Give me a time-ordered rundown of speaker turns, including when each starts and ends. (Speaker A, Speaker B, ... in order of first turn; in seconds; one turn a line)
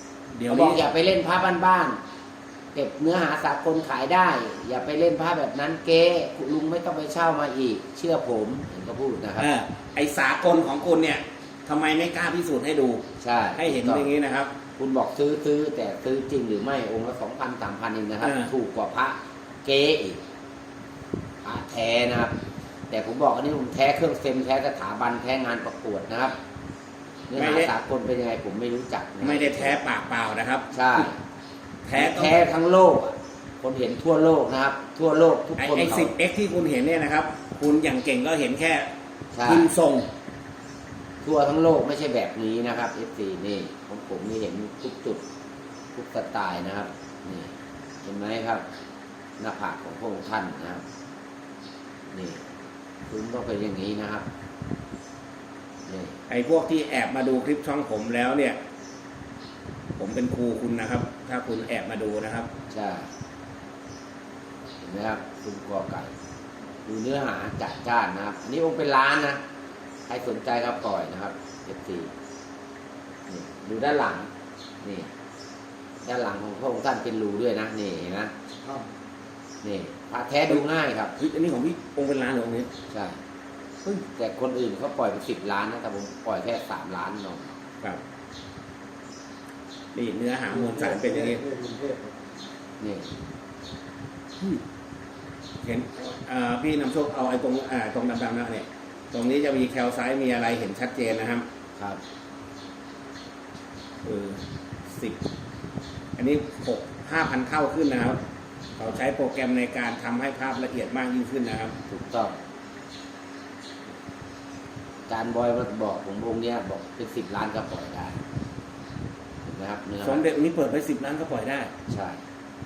Speaker A: 0.3-0.9
Speaker B: 0.5-2.0
Speaker B: 2.7-9.5
Speaker A: 9.4-13.0
Speaker B: 13.2-14.1
Speaker A: 13.6-14.5
Speaker B: 14.8-20.2
Speaker A: 18.2-18.5
Speaker B: 21.4-22.3
Speaker B: 22.9-26.4
Speaker B: 27.3-29.8
Speaker A: 27.3-27.7
Speaker A: 29.2-31.0
Speaker B: 30.7-31.2
Speaker A: 31.8-32.5
Speaker B: 31.9-36.1
Speaker A: 35.6-38.9
Speaker B: 39.3-39.7
Speaker A: 39.4-40.1
Speaker B: 41.2-45.2
Speaker B: 45.9-48.6
Speaker B: 49.4-50.8
Speaker B: 52.1-52.4
Speaker B: 53.1-54.2
Speaker B: 55.9-56.2
Speaker A: 56.3-58.6
Speaker A: 60.0-62.5
Speaker B: 62.7-63.1
Speaker B: 64.8-66.1
Speaker B: 66.8-69.4
Speaker B: 70.1-72.1
Speaker B: 73.3-74.3
Speaker B: 74.8-75.1
Speaker B: 76.0-78.3
Speaker C: 78.6-78.9
Speaker B: 79.6-81.1
Speaker A: 81.2-82.7
Speaker B: 82.9-83.2
Speaker B: 83.8-87.6
Speaker A: 89.9-91.4
Speaker C: 90.5-92.2
Speaker B: 92.8-93.1
Speaker A: 95.6-101.5
Speaker A: 104.0-105.2
Speaker A: 106.2-108.2
Speaker A: 108.8-111.8
Speaker B: 111.9-112.4
Speaker B: 115.1-118.2
Speaker B: 119.4-120.2
Speaker A: 120.0-121.7
Speaker B: 121.9-122.2